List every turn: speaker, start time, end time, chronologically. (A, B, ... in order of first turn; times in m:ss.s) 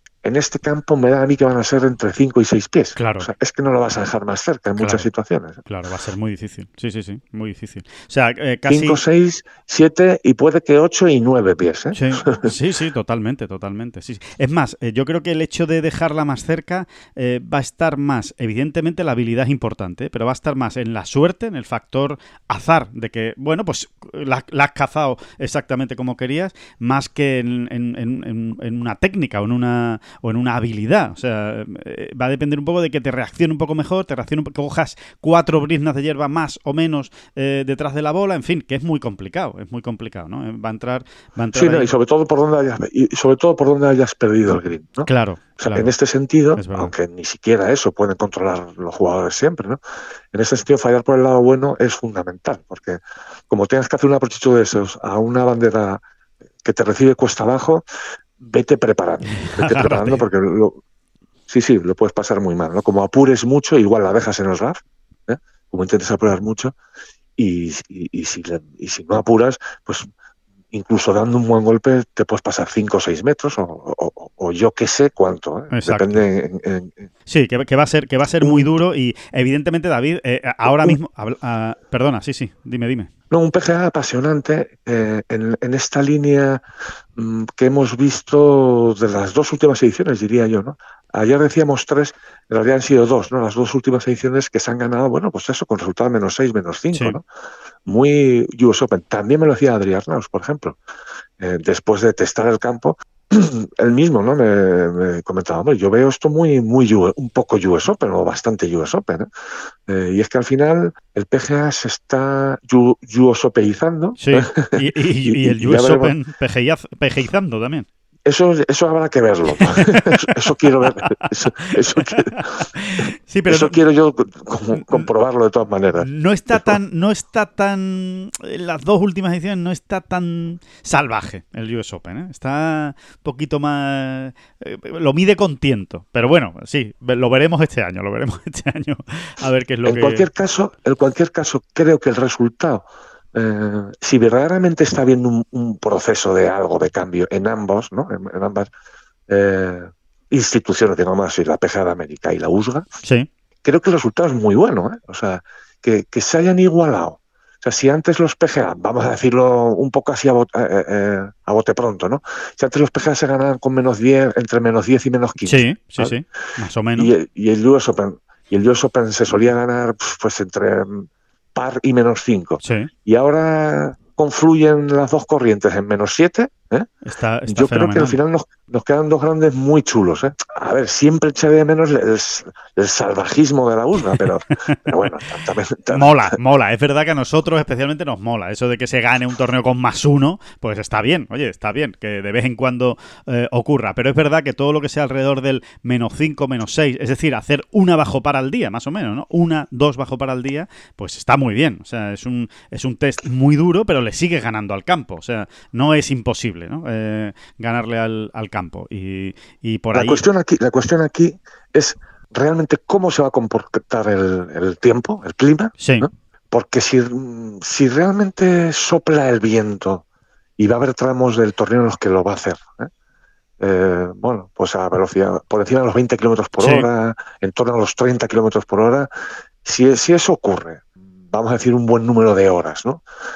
0:00.2-0:05.6 A
0:03.0-0:03.3 B
0:04.8-0:05.1 B
0:05.6-0:09.0 B
0:08.7-0:12.6 A
0:11.9-0:41.9 B
0:41.5-0:45.1 A
0:45.1-0:45.9 B
0:45.6-0:49.8 A
0:46.6-0:46.9 B
0:50.3-0:56.0 A
0:56.6-0:57.8 A
0:58.4-1:00.8 A
0:59.4-1:00.2 B
1:01.5-1:06.8 A
1:07.4-1:10.1 A
1:10.7-1:17.1 A
1:15.7-1:16.2 B
1:17.3-1:23.1 B
1:18.4-1:18.7 A
1:20.7-1:21.0 A
1:23.3-1:26.6 A
1:27.2-1:37.2 A
1:37.9-1:40.8 A
1:41.4-1:49.3 A
1:49.9-1:56.2 A
1:54.2-1:57.9 B
1:58.3-2:02.5 A
1:59.6-2:03.8 B
2:03.5-2:06.8 A
2:04.8-2:05.1 B
2:06.0-2:20.3 B
2:19.8-2:28.7 A
2:29.3-2:32.9 A
2:33.0-2:33.3 B
2:33.6-2:46.2 A
2:45.4-2:47.1 B
2:47.0-2:56.9 A
2:52.6-2:52.9 B
2:57.0-2:58.2 B
2:57.5-3:06.4 A
3:05.9-3:30.2 B
3:29.9-3:40.0 A
3:35.8-3:36.1 B
3:40.6-3:42.9 A
3:43.6-3:49.1 A
3:46.6-3:46.9 B
3:49.6-3:53.0 A